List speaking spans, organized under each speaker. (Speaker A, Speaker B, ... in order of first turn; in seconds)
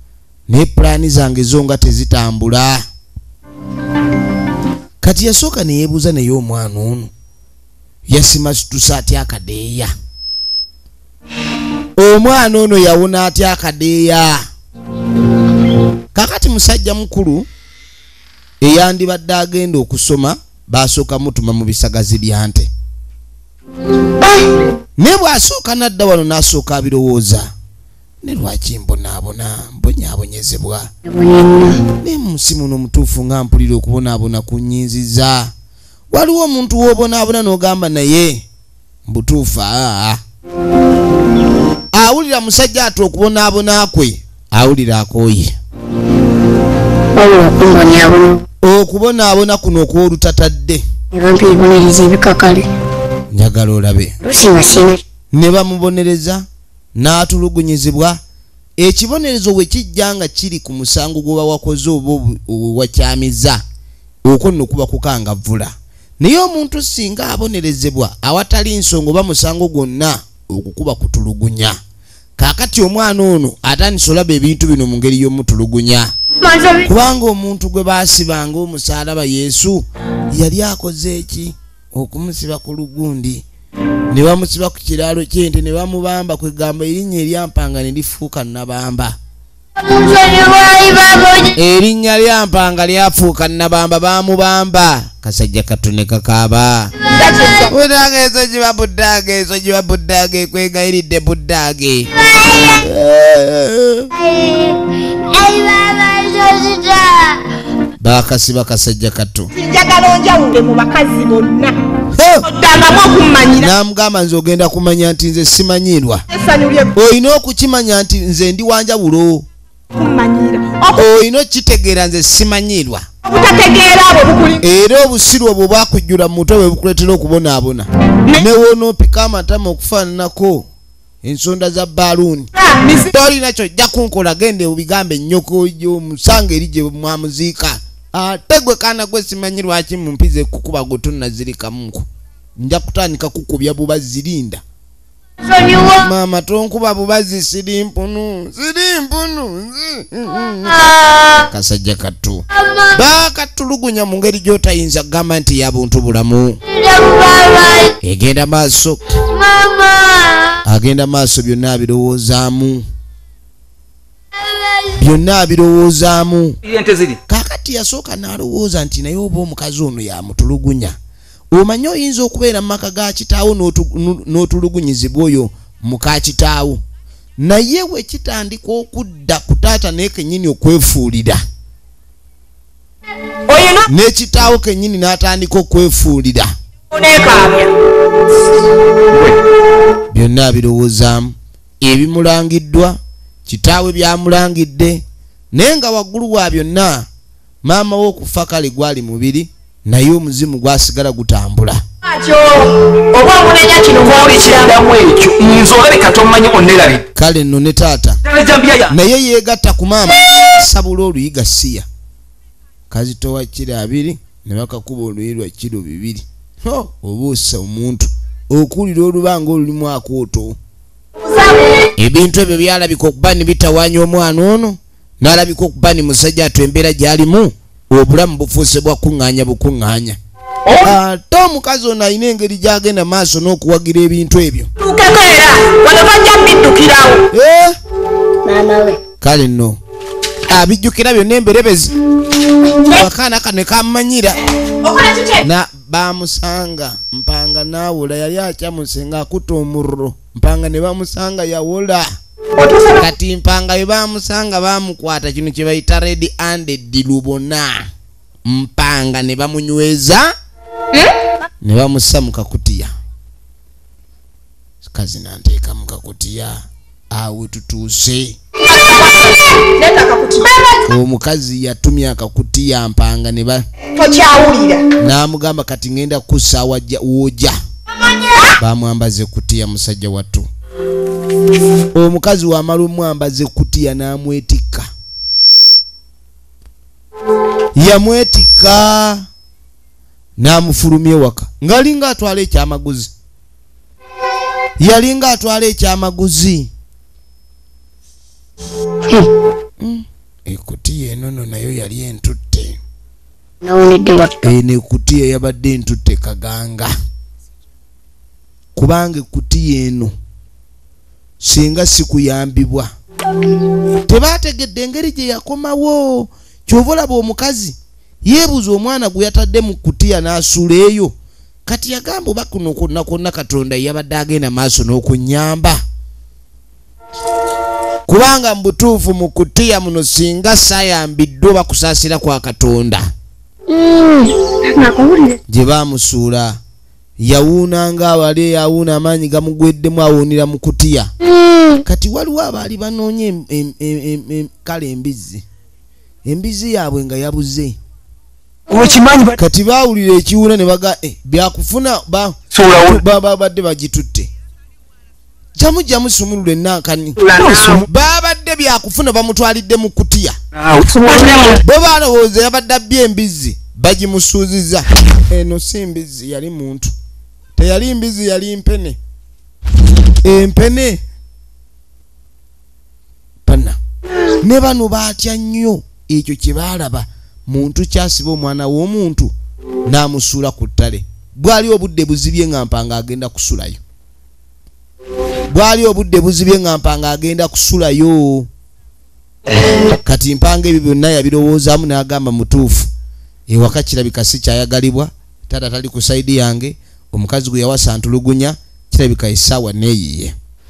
Speaker A: 0.5-2.9, 5.0-7.1, 8.1-9.9, 12.0-14.4, 16.1-17.5, 18.6-22.7, 25.0-27.5, 28.2-30.9, 31.7-35.5, 36.1-38.4, 39.1-40.2, 41.9-45.6, 48.6-50.8, 53.3-54.2, 55.3-56.5, 57.0-58.2, 58.8-63.6, 64.2-71.8, 72.4-76.1, 76.8-83.4, 84.1-89.2, 91.5-96.9, 97.7-102.1, 102.7-104.1, 108.0-109.5, 112.1-112.5, 113.5-116.2, 117.0-119.5, 120.9-123.1, 124.6-130.7, 131.2-132.5, 133.1-142.1, 142.6-144.6, 146.0-150.9, 151.5-156.6, 158.0-159.0, 160.6-162.8, 165.0-166.6, 167.3-171.0, 171.5-176.8, 177.4-181.4, 183.9-186.5, 190.1-197.1, 197.6-201.8, 207.2-208.2, 208.9-211.9, 212.9-220.6, 222.0-230.2, 230.8-234.7, 237.3-237.8, 239.2-239.8, 240.5-241.9, 242.9-244.4, 245.4-252.1, 253.0-257.8, 258.5-260.3, 261.6-262.9, 264.8-268.4, 270.9-273.6, 275.0-277.6, 278.6-280.5, 281.9-284.9, 287.8-289.2, 290.4-293.1, 294.8-296.7, 299.8-302.8, 304.4-306.9, 308.8-310.1, 311.4-312.9, 314.1-321.1, 321.7-325.8, 328.1-333.1, 335.5-336.6, 337.2-341.1, 341.9-345.4, 346.3-347.8, 349.4-354.3, 355.6-357.2, 357.7-360.4, 361.6-366.9, 367.6-369.0, 370.2-371.0, 373.5-373.8, 374.4-379.3, 379.9-383.8, 385.5-388.5, 390.1-392.9, 393.5-400.4
Speaker B: 31.1-31.6, 47.1-48.4, 51.1-52.7, 54.2-55.0, 76.4-76.9, 89.8-91.5, 104.1-107.4, 145.4-146.1, 150.7-151.5, 152.5-153.0, 156.7-157.9, 159.3-160.6, 164.4-165.0, 238.4-239.0, 242.7-243.0, 303.6-304.5, 333.7-335.4, 341.2-341.8
Speaker C: 97.1-97.7, 109.5-111.8, 112.4-113.7, 116.3-116.9, 119.9-121.0, 123.2-124.6, 132.6-133.1, 183.5-183.9, 186.9-187.7, 202.1-204.8, 221.2-221.7, 234.8-237.2, 244.8-245.4, 252.6-253.1, 260.9-261.2, 268.6-270.9, 273.9-274.9, 357.3-357.8, 360.9-361.6
Speaker D: 166.6-167.2, 204.0-207.0, 208.2-208.9, 348.7-349.4, 352.5-353.0, 357.2-357.9, 360.6-361.6